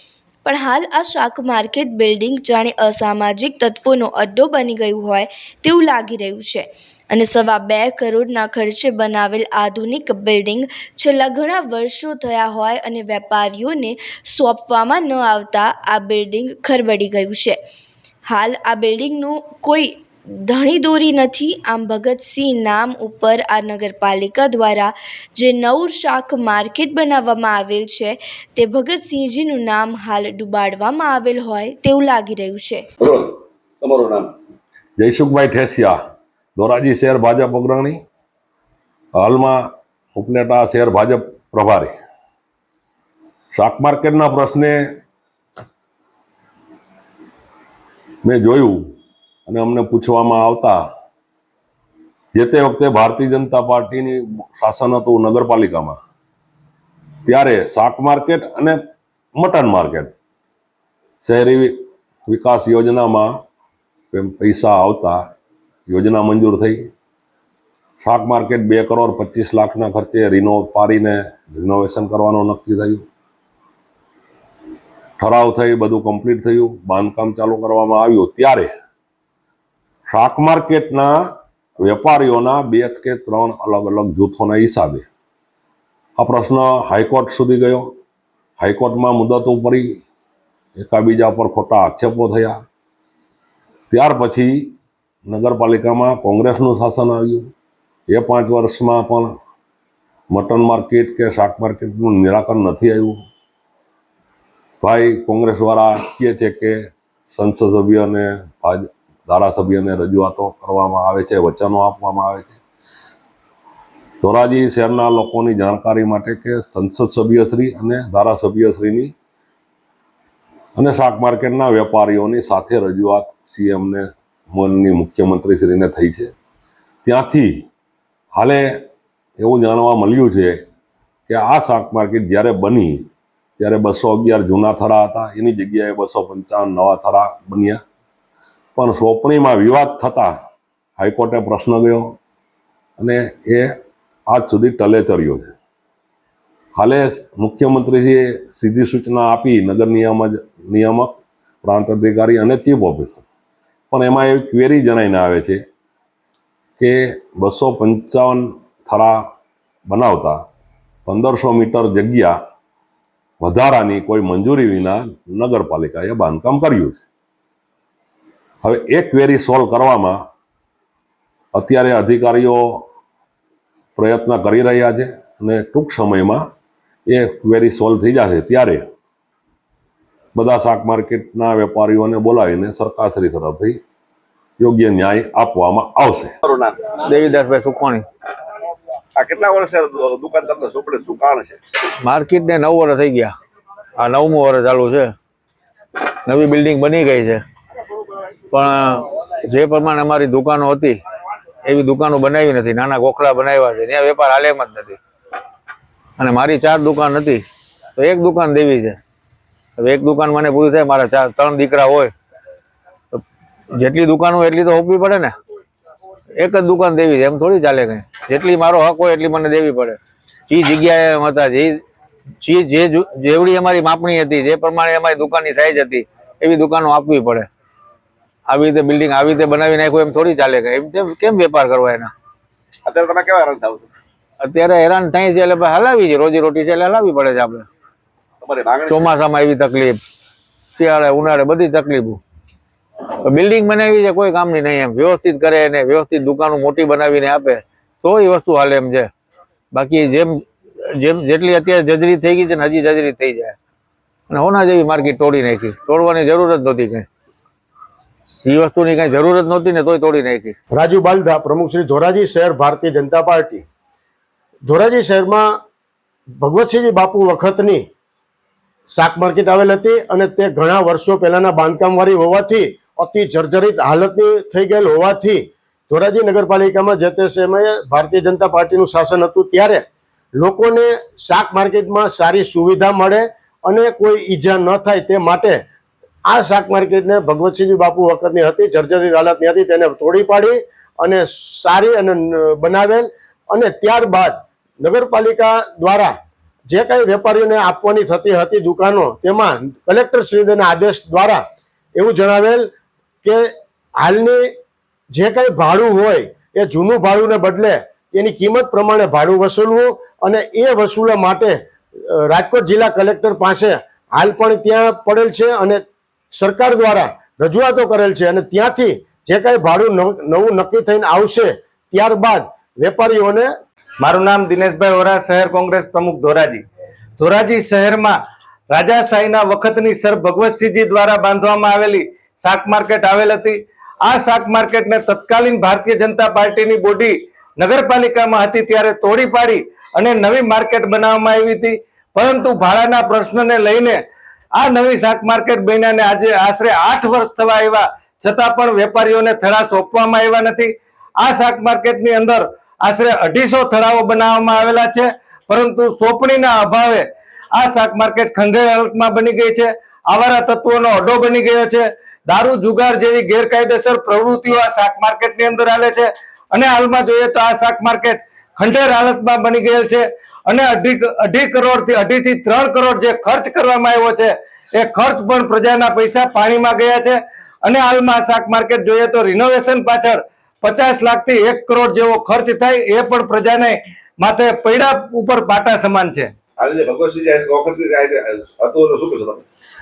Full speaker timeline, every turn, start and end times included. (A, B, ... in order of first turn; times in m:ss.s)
0:00.4-0:17.6 A
0:18.2-0:32.8 A
0:33.0-0:34.3 B
0:35.0-0:36.0 C
0:36.6-0:38.0 C
0:39.2-0:41.9 C
0:43.5-0:44.8 C
0:48.2-0:48.8 C
0:49.5-0:50.8 C
0:52.3-0:56.0 C
0:57.2-0:58.8 C
0:59.4-1:00.1 C
1:01.2-1:03.3 C
1:04.1-1:05.2 C
1:05.9-1:06.8 C
1:08.0-1:13.0 C
1:15.2-1:18.7 C
1:20.1-1:21.3 C
1:21.8-1:25.1 C
1:26.2-1:27.9 C
1:28.6-1:30.0 C
1:30.8-1:32.6 C
1:33.9-1:34.7 C
1:35.2-1:37.5 C
1:38.1-1:39.3 C
1:40.3-1:43.2 C
1:44.8-1:46.8 C
1:47.3-1:52.6 C
1:54.2-1:59.1 C
2:00.8-2:06.3 C
2:07.0-2:07.6 C
2:08.3-2:08.8 C
2:09.4-2:10.6 C
2:11.3-2:13.1 C
2:13.6-2:17.8 C
2:18.8-2:20.3 C
2:21.0-2:22.2 C
2:23.0-2:23.7 C
2:24.3-2:25.5 C
2:26.8-2:33.2 C
2:33.9-2:35.6 C
2:36.8-2:39.2 C
2:39.9-2:40.4 C
2:41.0-2:42.4 C
2:43.4-2:47.0 C
2:48.6-2:50.2 C
2:51.5-2:52.8 C
2:54.0-2:56.4 C
2:57.1-2:58.8 C
3:00.3-3:03.8 C
3:04.6-3:06.3 C
3:06.4-3:06.8 B
3:06.9-3:08.0 D
3:09.2-3:11.6 B
3:12.0-3:13.3 D
3:14.0-3:15.1 D
3:16.2-3:17.4 D
3:18.5-3:21.0 D
3:21.6-3:25.0 D
3:26.2-3:27.4 D
3:28.0-3:29.0 D
3:29.8-3:32.1 D
3:33.8-3:35.3 D
3:36.4-3:41.8 D
3:42.4-3:47.5 D
3:48.5-3:52.1 D
3:52.8-3:53.9 B
3:54.4-3:57.7 D
3:58.4-3:59.1 B
3:58.9-4:00.0 D
4:00.7-4:02.2 D
4:03.2-4:09.1 D
4:09.7-4:10.4 D
4:10.9-4:13.6 D
4:14.3-4:17.1 D
4:18.4-4:20.6 D
4:20.7-4:23.6 E
4:24.6-4:25.6 E
4:26.4-4:27.8 E
4:28.9-4:39.8 E
4:40.3-4:45.6 E
4:46.2-4:56.1 E
4:56.7-5:01.4 E
5:01.9-5:02.7 E
5:04.0-5:04.5 E
5:05.1-5:11.6 E
5:12.1-5:23.5 E
5:24.0-5:26.6 F
5:27.2-5:28.1 F
5:28.7-5:44.0 F
5:44.5-5:57.0 F
5:57.5-6:26.3 F
6:26.6-6:29.4 B